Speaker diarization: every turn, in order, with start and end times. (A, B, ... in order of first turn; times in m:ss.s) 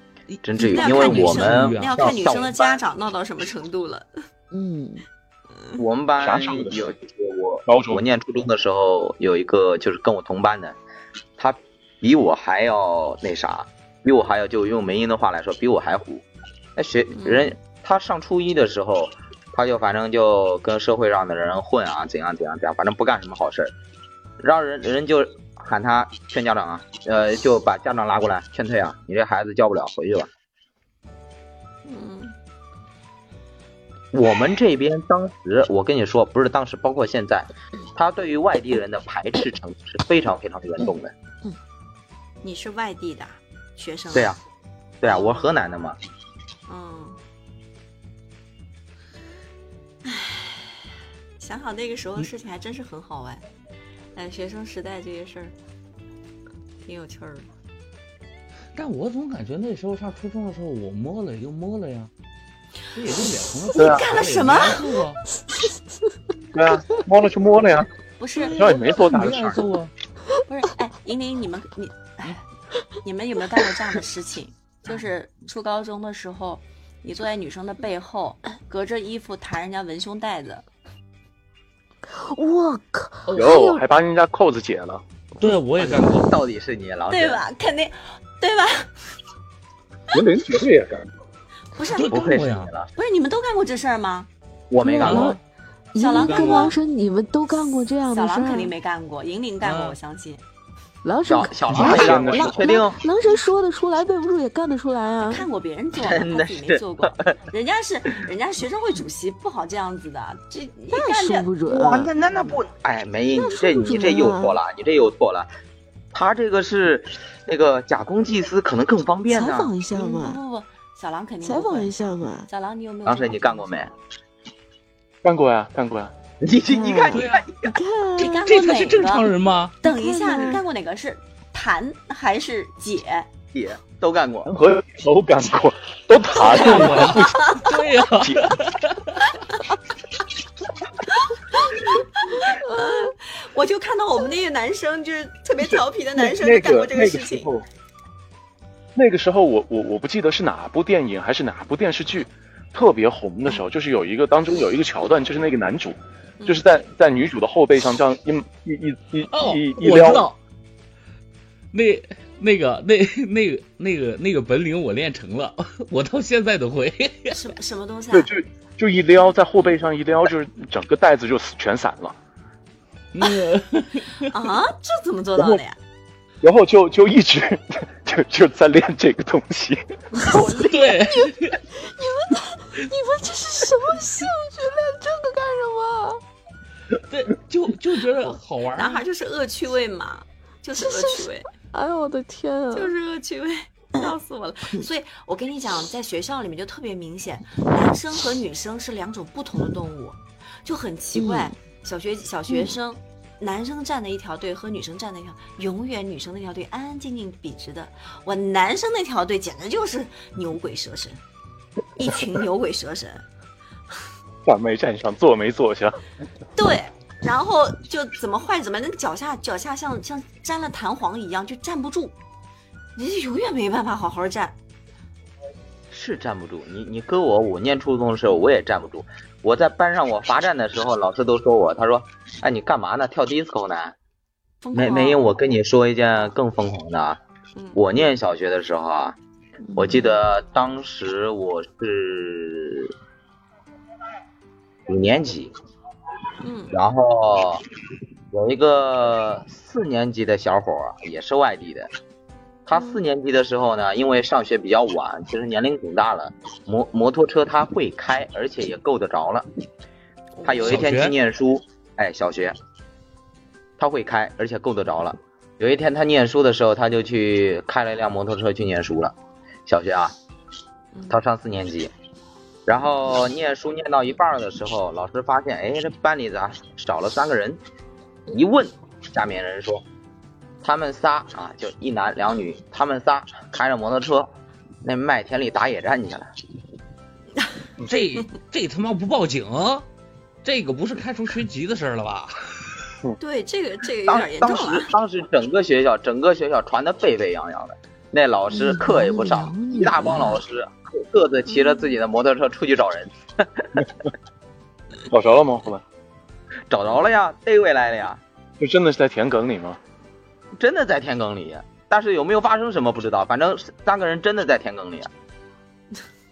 0:00.3-0:02.0 A
0:00.4-0:02.8 B
0:00.6-0:04.1 C
0:04.5-0:05.0 D
0:05.8-0:10.8 B
0:06.2-0:06.9 E
0:07.7-0:08.0 E
0:11.4-0:16.2 B
0:16.8-0:23.7 B
0:17.2-0:17.5 C
0:24.4-0:30.3 B
0:31.8-0:32.3 C
0:34.1-0:41.1 B
0:42.4-0:44.4 C
0:44.1-0:44.4 B
0:45.0-0:46.0 B
0:45.0-0:45.5 C
0:46.7-0:47.2 C
0:50.0-0:50.8 C
0:51.4-0:53.4 C
0:54.1-0:55.5 C
0:56.8-0:57.5 C
0:58.7-1:02.1 A
1:02.9-1:05.2 A
1:03.7-1:05.0 C
1:03.8-1:04.1 E
1:06.5-1:07.9 E
1:08.2-1:08.6 C
1:08.5-1:09.5 E
1:08.7-1:09.9 A
1:09.2-1:09.6 B
1:10.4-1:12.4 C
1:13.0-1:20.6 C
1:22.3-1:23.8 D
1:23.3-1:25.0 E
1:25.4-1:26.4 A
1:26.0-1:27.4 B
1:27.1-1:28.9 C
1:30.1-1:31.1 E
1:31.7-1:32.4 C
1:31.9-1:32.7 A
1:32.0-1:32.9 B
1:33.0-1:34.3 C
1:34.7-1:35.4 B
1:34.8-1:35.4 D
1:35.0-1:35.4 A
1:35.9-1:38.7 D
1:36.0-1:36.8 C
1:36.1-1:36.7 A
1:38.1-1:40.4 C
1:39.6-1:40.0 A
1:41.0-1:45.5 D
1:41.2-1:43.0 B
1:41.8-1:42.7 E
1:45.3-1:51.5 C
1:46.0-1:47.4 B
1:50.9-1:52.1 D
1:51.6-1:55.5 B
1:52.1-1:52.6 C
1:53.3-1:53.9 C
1:53.8-1:54.6 D
1:56.1-1:59.7 B
1:59.3-2:00.4 D
1:59.9-2:03.7 C
2:01.4-2:02.5 D
2:03.0-2:03.9 B
2:05.2-2:06.1 E
2:06.4-2:07.8 B
2:06.7-2:08.5 D
2:07.1-2:07.4 A
2:08.2-2:13.3 C
2:08.4-2:09.8 A
2:09.8-2:10.6 D
2:13.5-2:14.5 B
2:14.4-2:17.5 E
2:16.4-2:17.7 C
2:16.4-2:19.2 A
2:18.2-2:18.5 E
2:21.7-2:27.5 C
2:25.6-2:27.6 E
2:28.9-2:40.3 E
2:36.4-2:36.6 C
2:39.3-2:40.4 A
2:41.7-2:47.4 A
2:47.3-2:48.3 C
2:48.1-2:52.1 E
2:53.1-2:54.2 A
2:54.3-2:55.8 C
2:56.4-2:59.8 E
3:00.2-3:00.8 C
3:00.4-3:01.6 A
3:01.8-3:06.2 D
3:07.1-3:09.0 A
3:08.7-3:11.5 C
3:10.8-3:12.9 D
3:12.7-3:31.2 C
3:21.1-3:21.5 D
3:32.0-3:33.2 C
3:34.4-3:36.0 E
3:36.6-3:42.1 C
3:43.0-3:44.5 C
3:45.9-3:53.9 B
3:54.6-3:55.2 C
3:54.7-3:57.2 B
3:57.7-3:59.2 B
3:59.7-4:02.9 B
4:04.9-4:05.5 B
4:06.4-4:06.7 C
4:06.7-4:07.6 B
4:08.3-4:11.9 B
4:12.7-4:19.4 B
4:12.7-4:13.0 C
4:20.4-4:20.9 C
4:20.4-4:22.5 B
4:20.6-4:21.1 A
4:23.8-4:29.1 B
4:29.6-4:30.1 B
4:30.9-4:31.2 C
4:31.1-4:31.9 B
4:32.7-4:37.6 B
4:38.3-4:39.8 B
4:40.6-4:44.3 B
4:44.8-4:46.3 B
4:47.8-4:49.8 A
4:50.4-4:52.4 A
4:53.2-4:54.9 C
4:54.1-5:03.8 B
4:58.5-5:00.4 D
5:01.5-5:02.0 C
5:05.1-5:05.8 E
5:06.7-5:08.2 B
5:08.6-5:09.8 E
5:10.6-5:15.1 B